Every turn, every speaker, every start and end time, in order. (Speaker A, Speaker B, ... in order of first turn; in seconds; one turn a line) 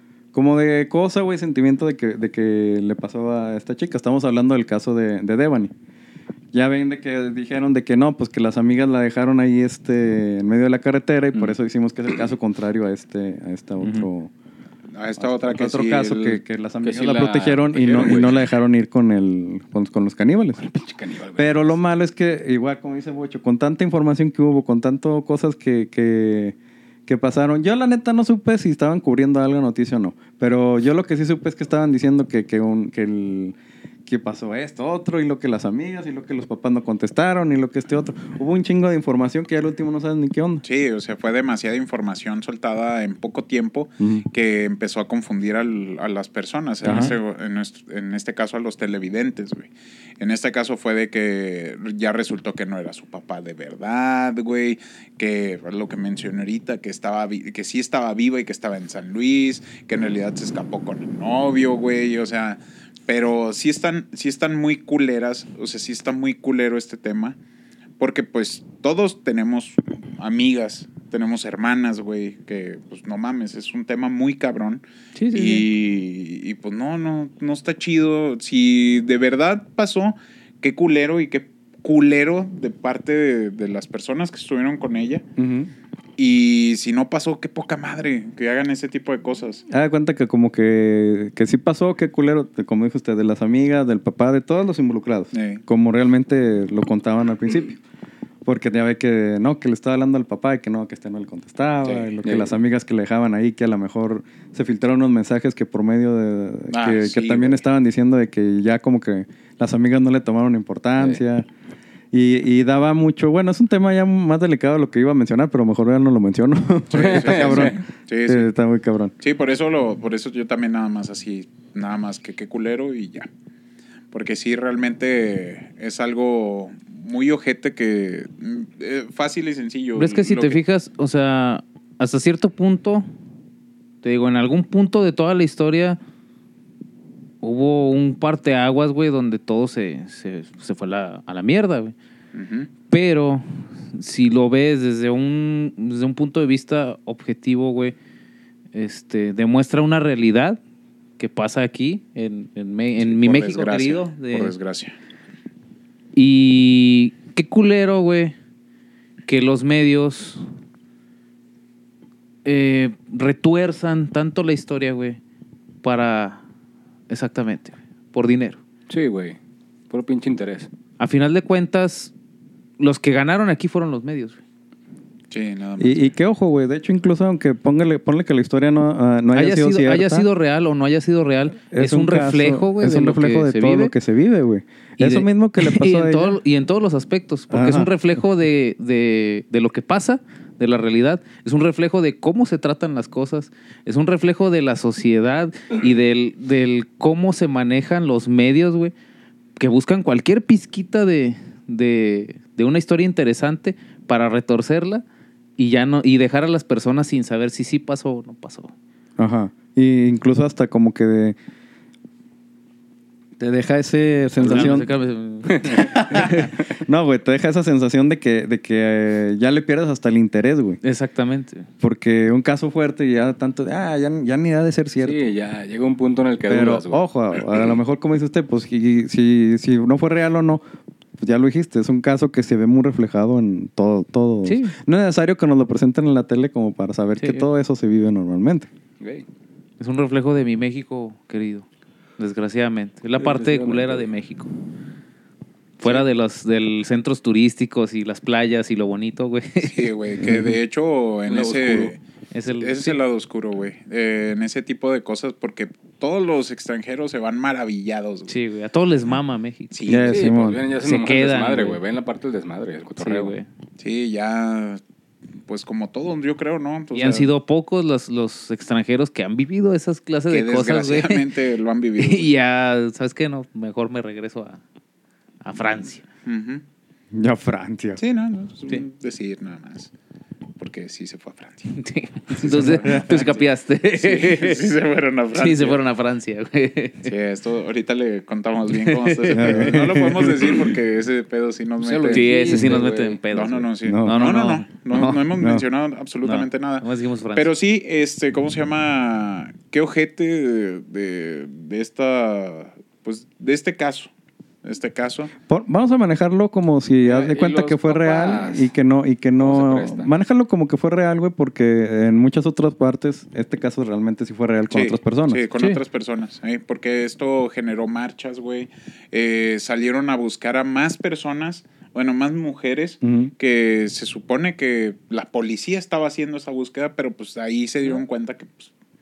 Speaker A: 0.3-5.7
Speaker A: 6.5-14.3
Speaker B: 13.8-14.1
Speaker C: 14.9-16.4
Speaker A: 15.2-20.6
Speaker D: 16.8-18.4
Speaker D: 20.6-21.8
Speaker A: 21.4-26.6
Speaker A: 27.1-33.5
Speaker A: 34.1-40.6
Speaker C: 40.6-67.4
Speaker A: 44.0-44.2
Speaker A: 46.8-47.1
Speaker B: 46.8-47.1
Speaker C: 68.0-85.2
Speaker B: 75.2-75.7
Speaker A: 85.4-85.7
Speaker C: 86.2-89.6
Speaker A: 89.7-97.8
Speaker C: 95.3-95.6
Speaker A: 98.5-111.5
Speaker C: 101.8-102.1
Speaker D: 102.2-102.5
Speaker C: 106.7-107.6
Speaker A: 112.1-119.1
Speaker C: 116.9-118.5
Speaker D: 116.9-117.8
Speaker C: 119.2-123.3
Speaker C: 124.1-130.6
Speaker B: 130.0-133.1
Speaker B: 134.0-136.0
Speaker B: 137.4-141.9
Speaker C: 142.3-142.7
Speaker B: 142.9-147.9
Speaker B: 148.7-150.6
Speaker B: 151.2-154.5
Speaker C: 153.0-154.9
Speaker B: 156.1-158.3
Speaker B: 159.3-160.4
Speaker B: 162.4-165.2
Speaker B: 165.8-166.4
Speaker B: 167.1-168.6
Speaker D: 168.9-169.4
Speaker D: 169.9-170.7
Speaker B: 171.0-172.1
Speaker B: 172.8-174.4
Speaker C: 175.3-176.1
Speaker A: 175.8-180.3
Speaker B: 179.3-183.9
Speaker A: 181.7-186.4
Speaker B: 185.0-198.9
Speaker A: 187.5-187.9
Speaker B: 199.6-205.0
Speaker B: 205.6-208.7
Speaker A: 209.2-211.4
Speaker A: 213.4-214.9
Speaker B: 214.4-216.6
Speaker D: 215.5-215.9
Speaker A: 215.8-220.8
Speaker B: 220.8-221.7
Speaker A: 221.8-225.2
Speaker D: 225.0-227.0
Speaker A: 226.5-230.6
Speaker A: 231.2-238.7
Speaker B: 234.4-234.7
Speaker B: 237.2-237.5
Speaker D: 239.0-239.3
Speaker B: 239.8-241.7
Speaker B: 242.2-244.5
Speaker D: 243.2-244.1
Speaker B: 245.8-249.9
Speaker C: 249.6-252.0
Speaker A: 250.2-250.5
Speaker D: 251.3-251.9
Speaker B: 252.3-253.0
Speaker C: 252.5-258.4
Speaker B: 258.3-259.8
Speaker C: 259.7-260.3
Speaker A: 259.9-260.6
Speaker D: 260.1-263.4
Speaker B: 260.8-261.8
Speaker B: 263.0-263.5
Speaker C: 263.8-264.8
Speaker C: 265.5-267.3
Speaker B: 266.9-271.3
Speaker C: 270.3-272.3
Speaker B: 272.0-274.6
Speaker B: 275.4-276.1
Speaker C: 276.2-276.6
Speaker A: 277.1-278.0
Speaker C: 278.0-279.9
Speaker C: 280.6-281.7
Speaker B: 281.7-284.8
Speaker A: 282.4-283.2
Speaker C: 282.4-285.8
Speaker B: 285.3-287.1
Speaker C: 287.0-292.5
Speaker B: 288.7-290.0
Speaker A: 289.3-290.6
Speaker D: 291.8-293.2
Speaker B: 292.1-295.2
Speaker C: 293.3-304.1
Speaker A: 293.8-294.3
Speaker A: 295.3-295.6
Speaker B: 296.2-297.5
Speaker C: 304.6-305.3
Speaker A: 305.5-315.4
Speaker D: 307.0-308.7
Speaker D: 309.4-310.1
Speaker C: 314.7-328.7
Speaker A: 323.0-323.3